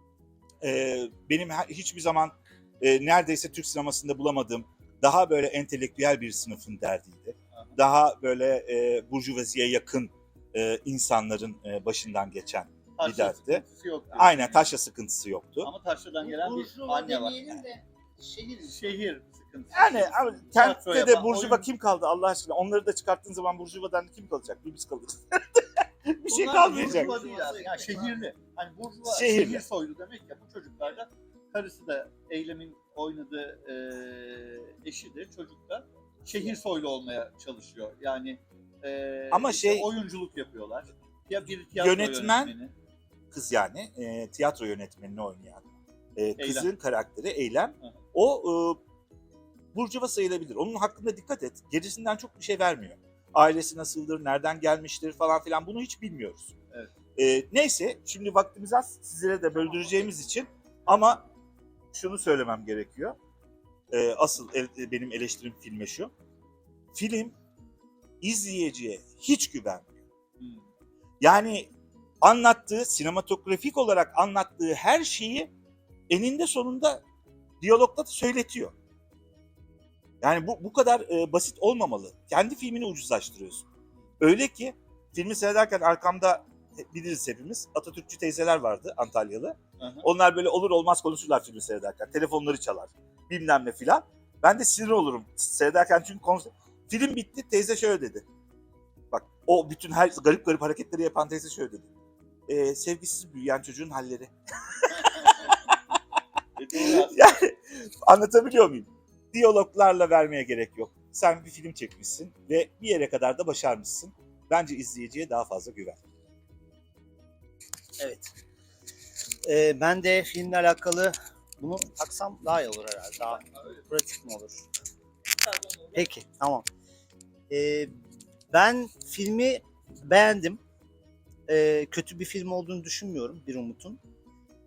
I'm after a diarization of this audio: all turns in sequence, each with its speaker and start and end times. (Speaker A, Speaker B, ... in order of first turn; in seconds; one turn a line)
Speaker A: 0.6-13.6
Speaker B: 13.0-14.7
Speaker A: 14.2-15.7
Speaker B: 15.6-17.6
Speaker C: 16.2-18.8
Speaker B: 18.7-21.7
Speaker A: 19.7-27.1
Speaker B: 26.2-42.7
Speaker C: 26.5-28.2
Speaker A: 29.1-29.6
Speaker A: 39.3-39.9
Speaker A: 41.8-42.5
Speaker A: 43.3-45.6
Speaker A: 46.2-48.8
Speaker B: 46.4-46.7
Speaker A: 49.7-56.5
Speaker A: 57.2-61.2
Speaker A: 61.9-63.2
Speaker A: 63.9-66.1
Speaker A: 66.9-67.3
Speaker A: 68.2-69.9
Speaker A: 71.2-71.7
Speaker A: 72.2-75.5
Speaker A: 76.1-77.0
Speaker A: 77.6-78.8
Speaker A: 80.2-83.7
Speaker A: 84.2-98.2
Speaker B: 89.8-90.0
Speaker A: 99.1-101.9
Speaker A: 102.5-105.5
Speaker B: 106.6-107.3
Speaker A: 106.7-116.0
Speaker C: 118.0-118.3
Speaker C: 119.4-124.7
Speaker B: 125.4-126.1
Speaker C: 125.9-126.7
Speaker C: 127.5-127.9
Speaker C: 128.5-130.6
Speaker C: 131.5-134.0